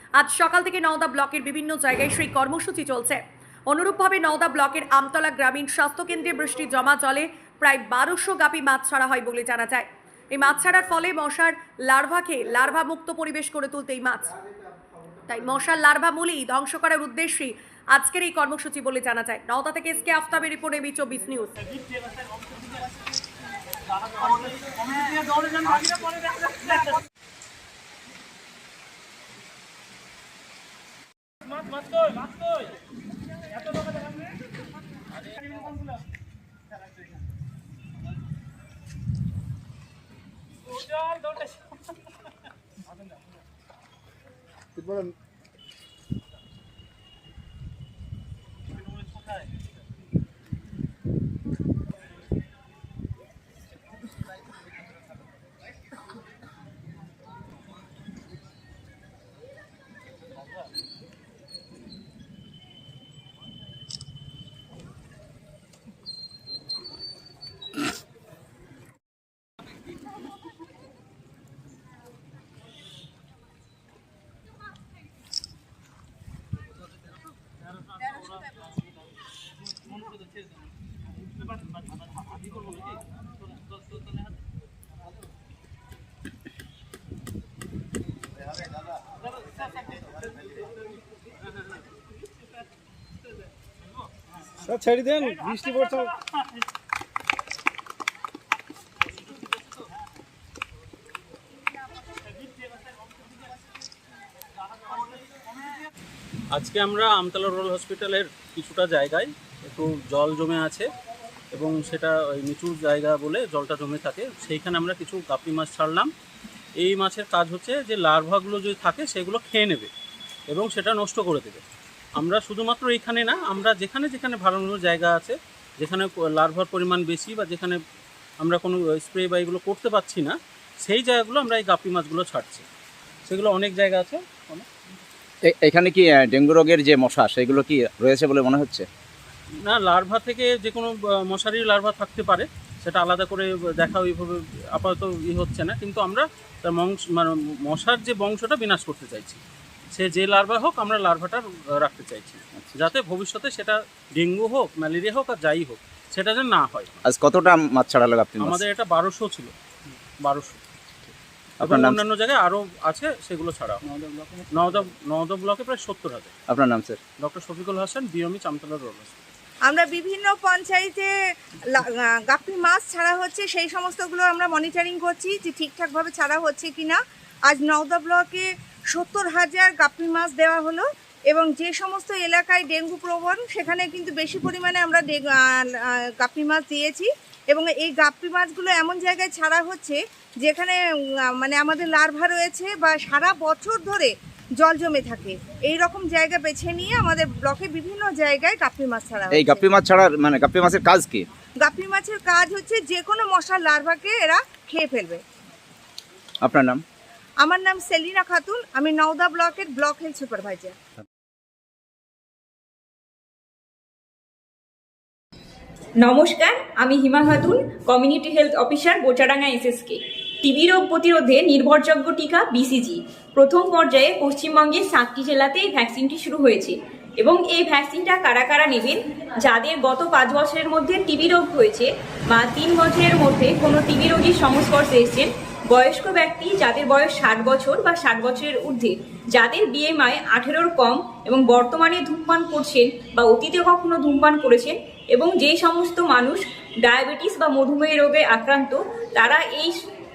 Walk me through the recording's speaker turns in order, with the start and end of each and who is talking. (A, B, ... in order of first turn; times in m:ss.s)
0:00.2-0:14.4 A
0:15.3-0:21.6 A
0:25.4-0:26.5 B
1:34.8-1:36.1 C
1:46.5-1:50.9 B
1:51.5-1:56.1 B
1:56.8-1:59.9 B
2:00.5-2:01.6 B
2:02.2-2:07.8 B
2:08.4-2:12.7 B
2:13.3-2:14.7 B
2:15.4-2:18.9 D
2:19.7-2:29.4 B
2:29.9-2:37.0 B
2:37.0-2:38.6 D
2:38.4-2:39.5 B
2:40.2-2:40.6 B
2:41.6-2:42.0 D
2:41.6-2:46.3 B
2:46.5-2:47.0 D
2:47.2-2:49.2 B
2:49.7-2:51.1 E
2:51.7-3:19.7 E
3:19.3-3:21.3 D
3:21.6-3:25.2 E
3:26.4-3:26.8 D
3:27.4-3:30.7 E
3:36.0-4:09.8 C